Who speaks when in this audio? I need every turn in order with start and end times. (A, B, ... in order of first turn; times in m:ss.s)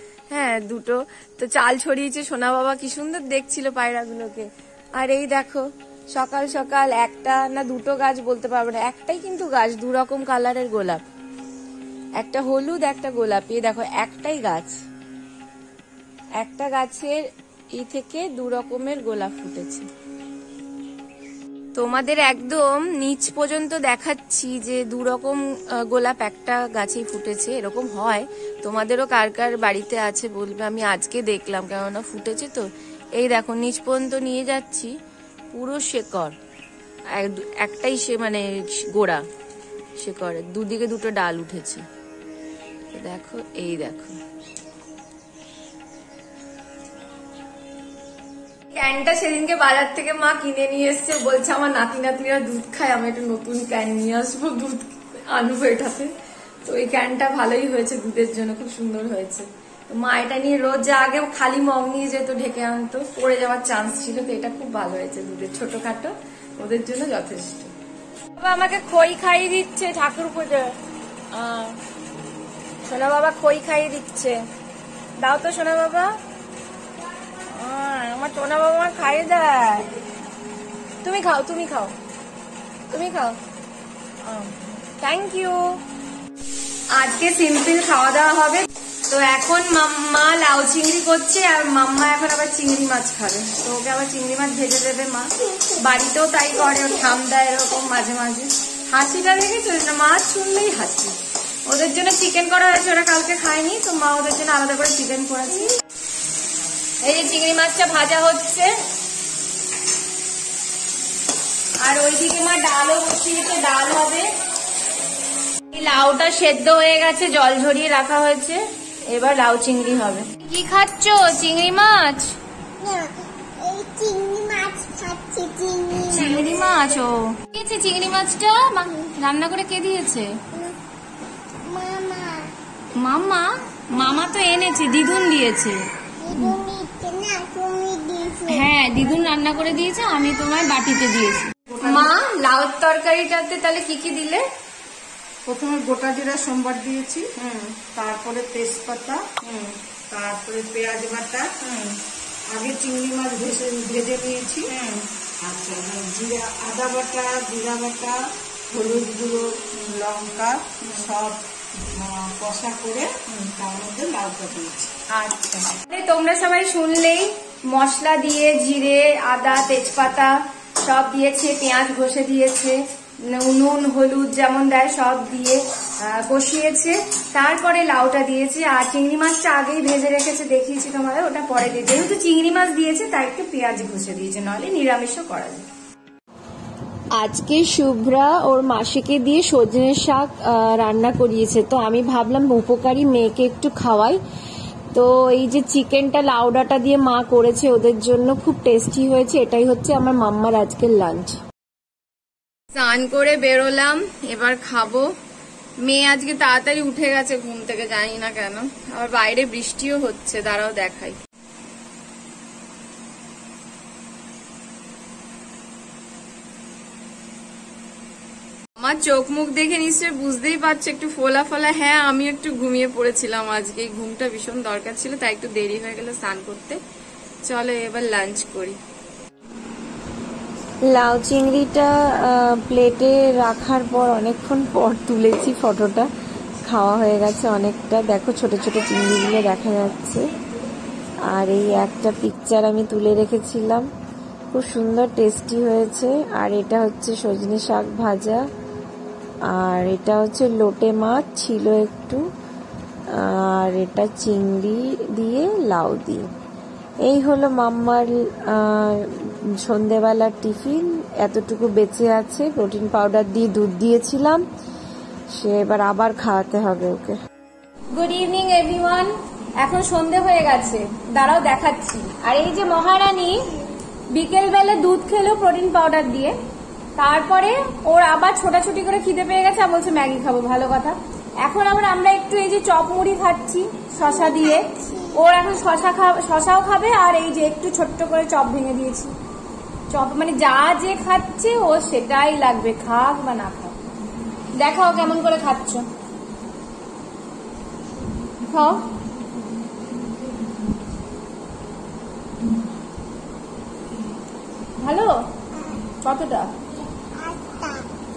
0:00.3-0:11.0 A
0:12.2-0:14.8 A
0:16.4-0:17.2 A
0:17.7-0:19.9 A
0:21.8-0:34.9 A
0:35.5-0:36.4 A
0:37.1-0:39.2 A
0:40.0-0:41.8 A
0:42.9-0:44.2 A
0:48.7-0:56.1 A
0:56.6-1:07.7 A
1:08.4-1:10.8 A
1:11.3-1:11.8 A
1:12.9-1:14.4 A
1:15.2-1:16.2 A
1:17.5-1:19.9 A
1:21.0-1:22.0 A
1:22.9-1:23.4 A
1:24.2-1:25.8 A
1:26.9-1:45.8 A
1:47.0-1:48.8 A
1:51.8-1:54.3 A
1:55.7-2:02.4 A
2:02.8-2:06.5 B
2:06.1-2:10.4 A
2:11.6-2:12.5 B
2:13.0-2:16.6 A
2:16.2-2:18.7 B
2:18.5-2:24.4 A
2:21.7-2:22.1 C
2:25.5-2:27.3 C
2:27.4-2:27.8 A
2:27.9-2:29.4 C
2:29.4-2:29.8 A
2:30.1-2:31.6 C
2:31.6-2:32.0 A
2:32.5-2:34.7 C
2:34.7-2:35.1 A
2:35.4-2:44.9 C
2:45.1-3:05.7 A
3:07.1-3:14.2 A
3:14.9-3:21.4 A
3:22.7-3:25.1 A
3:25.8-3:31.2 A
3:38.8-3:46.8 A
3:47.4-3:48.8 A
3:50.9-3:56.1 A
3:56.6-4:00.3 A
4:01.2-4:03.9 A
4:04.5-4:08.5 A
4:09.5-4:12.2 A
4:13.1-4:16.3 A
4:17.0-4:24.4 A
4:25.3-4:27.2 A
4:27.9-4:33.5 A
4:34.1-4:36.4 A
4:37.0-4:49.1 A
4:44.1-4:45.1 B
4:49.9-4:53.8 A
4:54.6-4:55.9 A
4:58.5-4:58.9 A
5:04.8-5:05.3 A
5:05.9-5:06.6 A
5:07.0-5:07.9 B